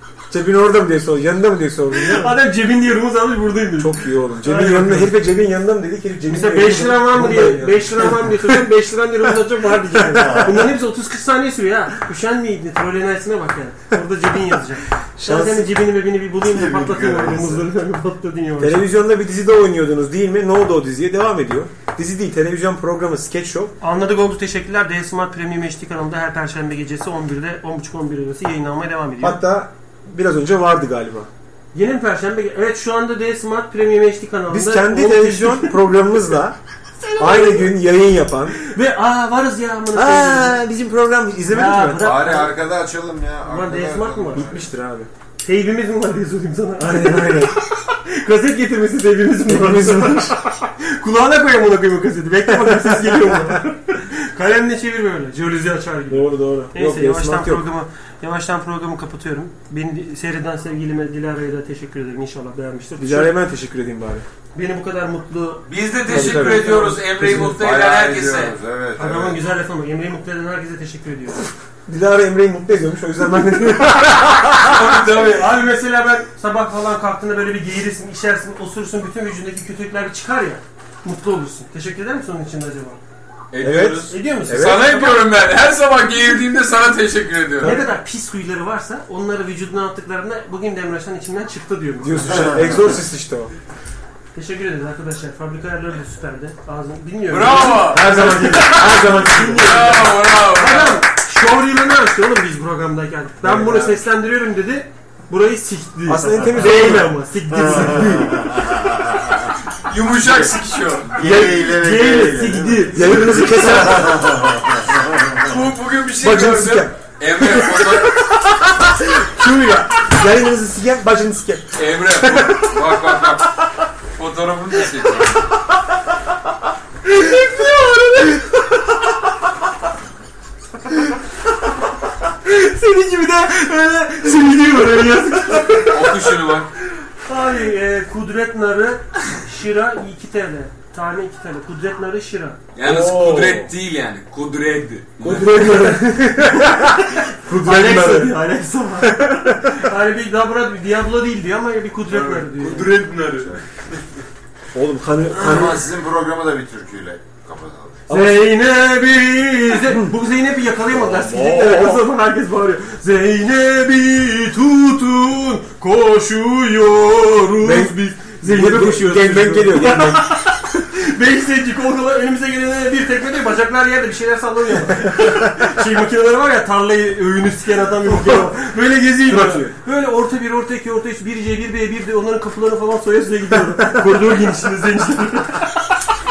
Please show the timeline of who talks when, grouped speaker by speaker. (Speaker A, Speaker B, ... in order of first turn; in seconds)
Speaker A: 0.3-2.4, 3.8-8.6, 15.2-15.7, 18.6-23.7, 29.2-31.3, 34.5-36.6, 37.2-38.6, 39.9-42.2, 44.3-45.1, 46.8-47.5, 49.5-50.4, 52.5-53.6, 56.1-57.7, 63.0-64.3, 66.1-67.6, 71.9-75.0, 83.6-84.9, 87.6-87.9, 92.0-93.5, 97.8-100.0, 103.4-103.9, 106.1-107.2, 111.2-111.6, 112.9-114.2, 116.2-123.3, 142.8-143.7, 145.2-148.4, 149.0-149.8, 154.7-155.8, 158.1-158.4, 160.9-162.1, 167.6-170.2, 175.1-175.7, 178.1-178.5, 179.2-179.8
Speaker B: 1.9-5.1, 6.3-18.9, 23.8-29.4, 31.7-35.9, 37.0-37.7, 38.6-40.6, 41.5-42.5, 43.5-44.5, 45.4-63.4, 64.5-67.0, 69.0-71.5, 75.3-83.0, 84.1-85.3, 87.6-92.5, 94.3-108.5, 111.3-113.7, 127.2-128.4, 132.4-136.3, 137.2-142.6, 145.6-153.0, 158.1-185.7
Speaker C: 10.1-10.7, 16.4-17.7, 42.0-44.6, 67.4-69.4, 107.5-109.2, 110.2-110.5, 111.1-115.6, 153.3-153.7, 155.3-158.1
Speaker D: 65.7-68.6, 74.5-75.6, 83.5-87.8, 97.3-101.0, 109.9-111.2, 115.5-118.2, 121.8-123.5, 124.2-125.5, 135.7-136.7, 142.8-145.6, 152.1-153.6